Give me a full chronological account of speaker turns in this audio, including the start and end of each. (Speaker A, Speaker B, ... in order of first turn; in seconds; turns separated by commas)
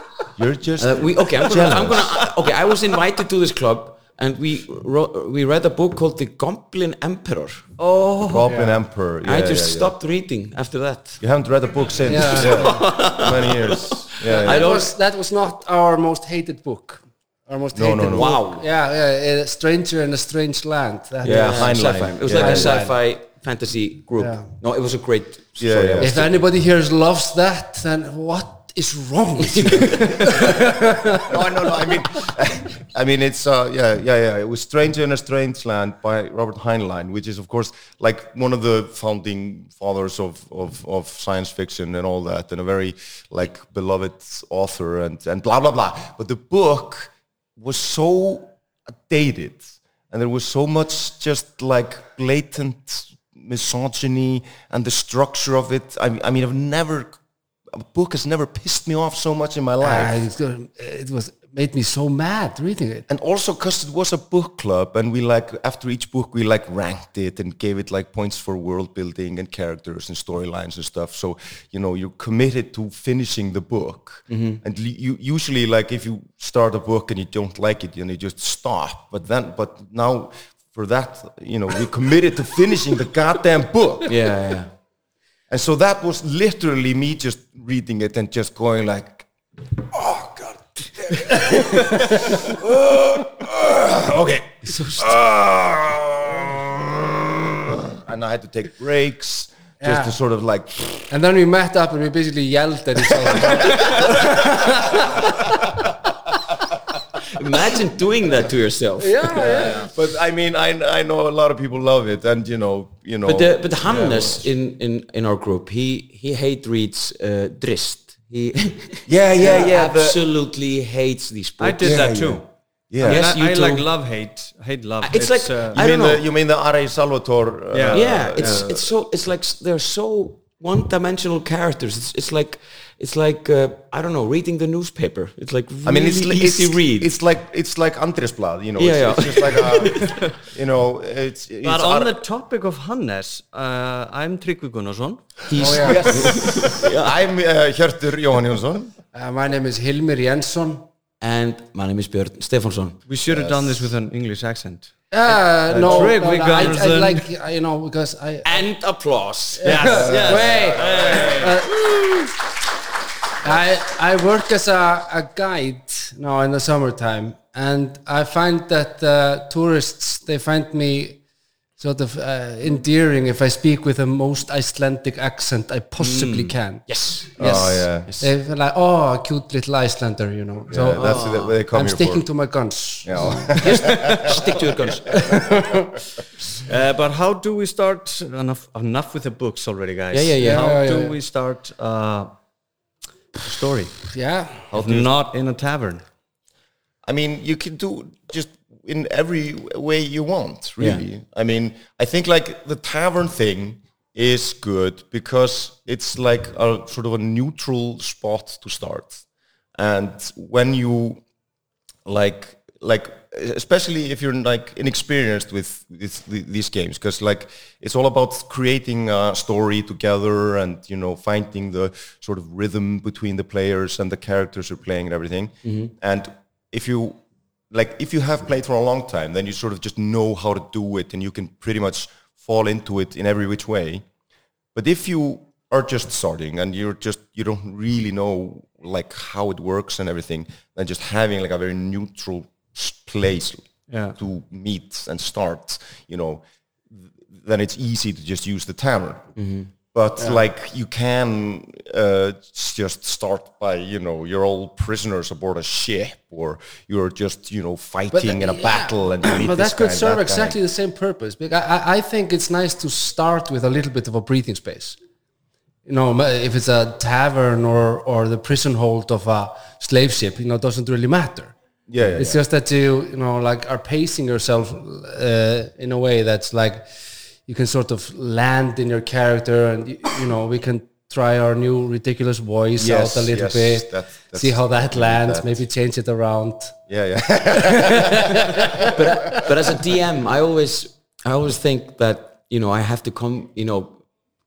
Speaker A: 0.3-2.3, Speaker B: 0.8-7.6, Speaker C: 7.8-8.6, Speaker A: 8.2-9.9, Speaker D: 8.5-8.8, Speaker B: 9.2-11.2, Speaker A: 11.2-14.7, Speaker D: 12.1-12.8, Speaker B: 12.2-14.9, Speaker D: 14.2-22.9, Speaker A: 17.7-18.3, Speaker B: 18.1-18.6, Speaker A: 21.2-22.9, Speaker B: 21.2-26.4, Speaker D: 24.2-24.5, Speaker A: 25.6-26.3, Speaker D: 26.0-31.3, Speaker B: 29.4-30.4, Speaker A: 31.2-48.5, Speaker A: 49.1-57.1, Speaker A: 57.7-60.1, Speaker D: 59.8-63.1, Speaker A: 63.1-84.2, Speaker B: 74.3-74.6, Speaker B: 84.0-84.7, Speaker A: 85.5-101.1, Speaker B: 94.6-95.2, Speaker D: 99.8-100.2, Speaker D: 101.1-105.5, Speaker A: 103.2-104.4, Speaker B: 107.3-109.5, Speaker D: 109.0-109.9, Speaker A: 109.3-114.4, Speaker B: 113.2-122.4, Speaker A: 119.1-120.2, Speaker C: 121.6-122.4, Speaker A: 121.8-123.3, Speaker B: 123.0-123.9, Speaker C: 123.0-125.8, Speaker B: 125.0-126.2, Speaker A: 125.7-128.9, Speaker C: 127.7-128.6, Speaker B: 127.9-137.1, Speaker A: 135.8-142.2, Speaker B: 138.8-140.2, Speaker C: 141.6-145.4, Speaker B: 145.5-147.2, Speaker D: 145.6-146.2, Speaker A: 145.7-148.9, Speaker D: 149.1-150.8, Speaker B: 151.2-153.0, Speaker C: 153.1-157.2, Speaker A: 153.3-153.9, Speaker D: 155.1-158.6, Speaker B: 158.4-161.3, Speaker D: 159.6-162.3, Speaker C: 159.6-161.6, Speaker A: 160.1-161.4, Speaker D: 163.4-171.2, Speaker D: 171.8-176.8, Speaker C: 176.0-176.5, Speaker B: 176.9-178.3, Speaker D: 177.3-184.3, Speaker A: 177.4-178.1, Speaker A: 180.7-182.2, Speaker B: 180.9-181.6, Speaker A: 183.0-184.4, Speaker B: 183.6-185.2, Speaker D: 185.1-186.0, Speaker C: 186.6-192.3, Speaker B: 190.1-190.7, Speaker D: 190.4-191.2, Speaker C: 193.4-194.0, Speaker D: 194.1-194.7, Speaker A: 194.7-195.1, Speaker C: 194.7-196.0, Speaker A: 197.0-209.2, Speaker B: 200.8-201.0, Speaker A: 209.7-211.2, Speaker A: 212.0-227.2, Speaker B: 225.6-225.9, Speaker A: 227.7-234.0, Speaker A: 234.7-243.6, Speaker C: 243.9-244.2, Speaker A: 244.2-249.3, Speaker B: 249.3-249.7, Speaker A: 249.9-260.6, Speaker D: 258.1-265.0, Speaker D: 265.8-271.5, Speaker A: 271.9-272.4, Speaker D: 272.2-286.8, Speaker A: 282.8-285.6, Speaker A: 286.9-289.5, Speaker D: 287.7-288.6, Speaker B: 288.9-294.0